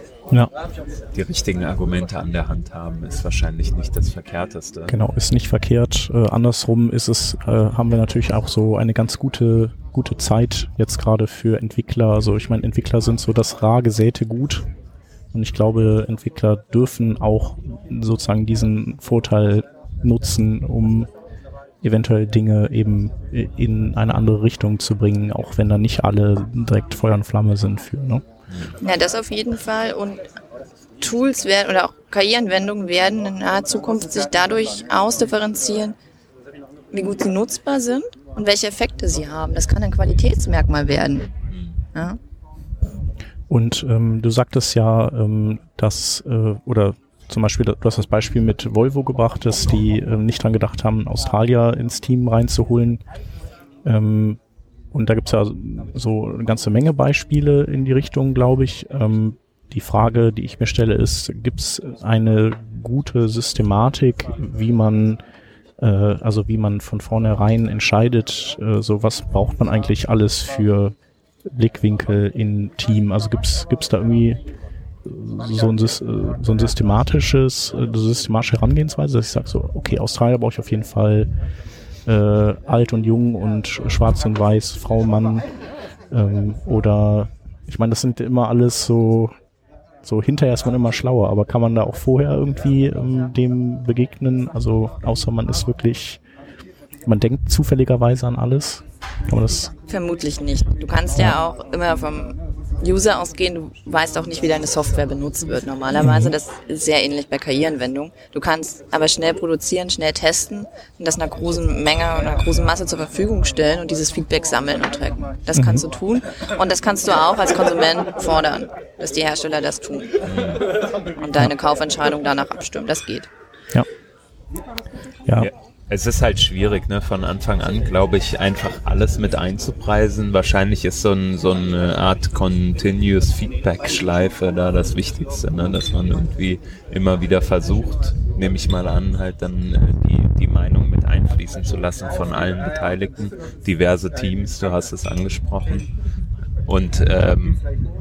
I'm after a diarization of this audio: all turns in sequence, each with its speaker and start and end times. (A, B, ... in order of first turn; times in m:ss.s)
0:01.1-0:04.9 A
0:04.9-0:14.6 B
0:15.3-0:21.1 B
0:21.8-0:28.2 B
0:28.8-0:30.2 C
0:31.0-0:36.0 C
0:36.9-0:41.3 C
0:43.5-0:53.0 B
0:53.8-0:54.4 B
0:54.9-1:05.2 B
1:05.8-1:10.9 B
1:11.5-1:14.4 B
1:15.0-1:21.3 B
1:22.0-1:25.4 B
1:26.1-1:29.3 B
1:30.0-1:36.2 B
1:37.0-1:39.7 B
1:39.9-2:00.1 C
1:46.0-1:46.4 B
1:55.5-1:55.8 B
2:00.3-2:00.6 A
2:01.2-2:03.3 C
2:05.4-2:25.8 A
2:26.7-2:27.6 A